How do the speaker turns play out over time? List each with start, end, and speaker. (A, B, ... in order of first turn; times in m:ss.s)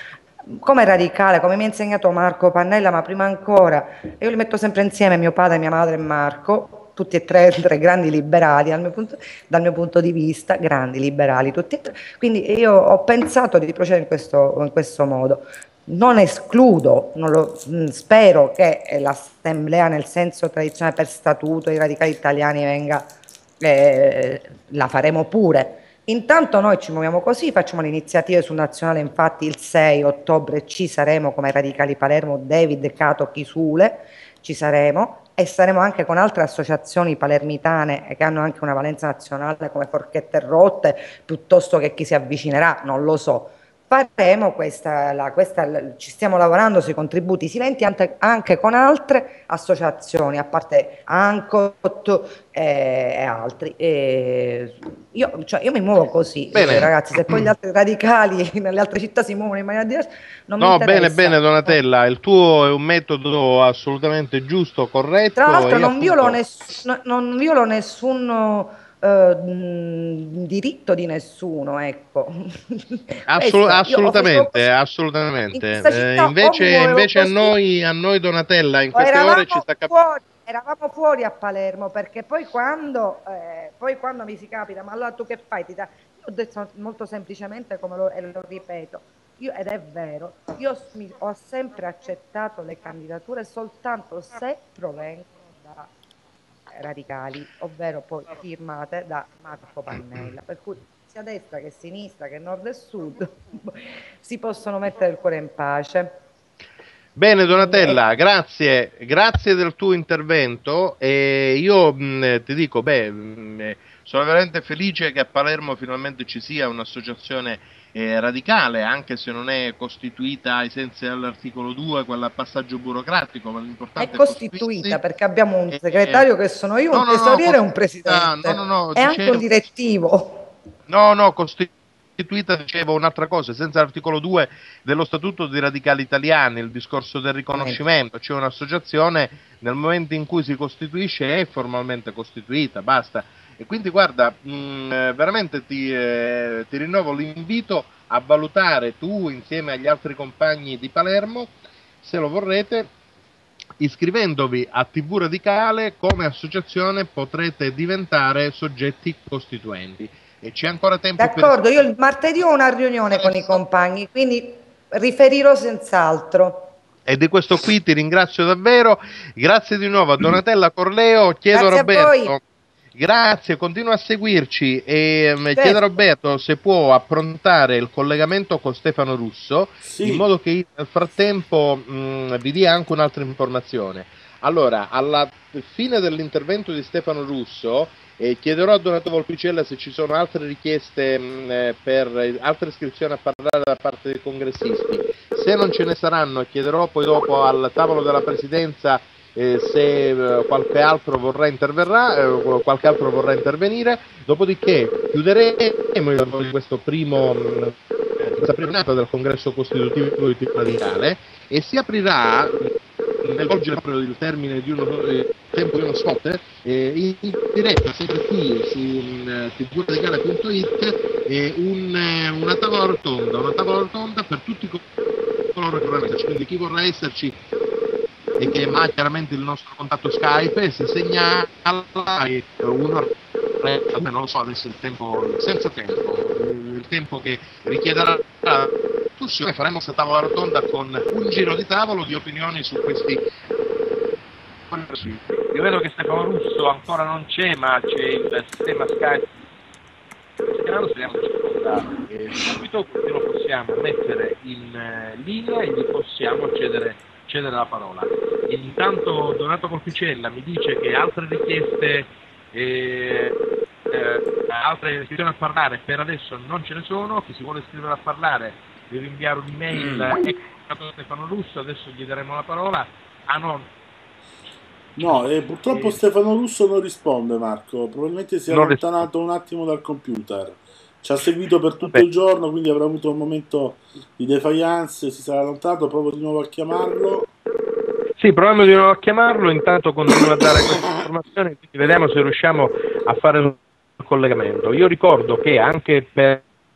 0:00.5-1:01.7 A
0:56.5-0:57.5 B
1:00.6-1:06.4 B
1:05.4-1:14.6 A
1:13.3-1:19.9 B
1:15.5-1:17.6 A
1:18.9-1:35.9 A
1:36.7-1:46.2 A
1:47.2-2:05.0 B
1:47.5-1:48.0 A
2:04.0-2:10.5 A
2:05.7-2:06.3 B
2:06.9-2:09.5 B
2:10.9-2:32.9 B
2:33.8-2:41.9 B
2:41.2-2:46.7 A
2:43.1-2:43.6 B
2:47.1-2:52.4 B
2:51.5-2:52.4 A
2:53.0-3:32.7 B
2:55.5-2:55.9 A
2:59.8-3:00.3 C
3:33.2-3:44.8 B
3:45.6-3:47.4 B
3:48.4-4:03.2 B
4:04.7-4:09.3 B
4:10.5-4:23.4 B
4:23.9-4:33.7 B
4:35.0-4:47.3 C
4:35.7-4:36.0 B
4:38.5-4:39.0 B
4:48.2-4:56.4 B